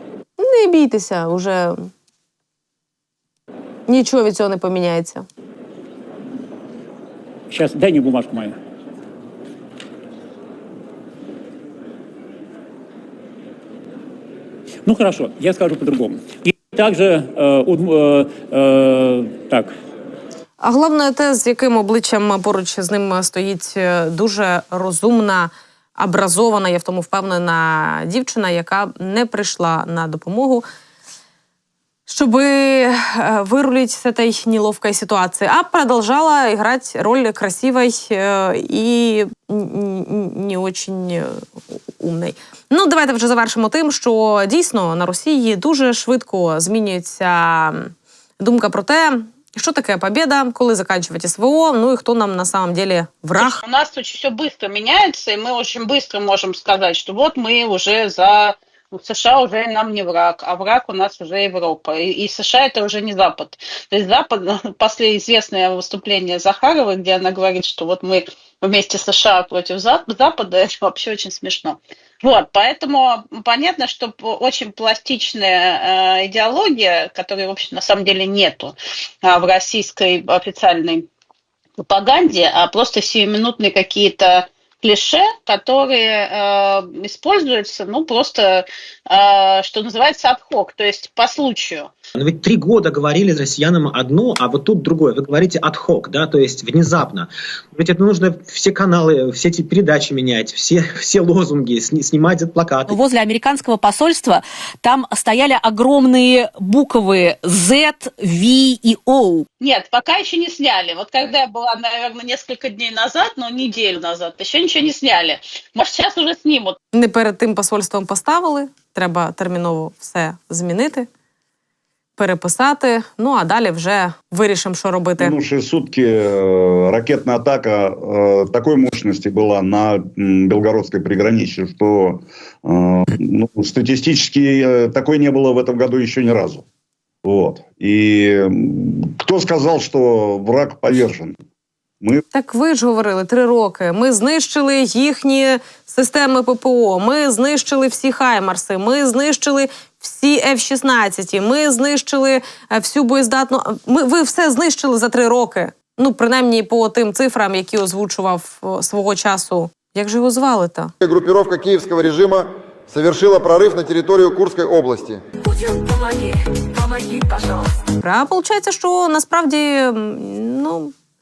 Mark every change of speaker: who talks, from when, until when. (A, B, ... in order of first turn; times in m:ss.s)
0:00.4-0:01.9 A
0:03.9-0:05.2 A
0:07.5-0:08.6 B
0:14.8-0:19.7 B
0:20.6-0:30.6 A
0:32.1-0:53.6 A
0:53.4-1:21.1 C
1:21.8-1:31.9 C
1:32.2-1:43.0 D
1:42.9-1:49.5 E
1:49.6-1:56.8 C
1:56.9-2:01.1 A
2:02.2-2:05.3 A
2:05.2-2:16.6 F
2:17.2-2:21.4 F
2:22.3-2:40.9 A
2:41.0-2:45.1 G
2:48.0-2:50.9 A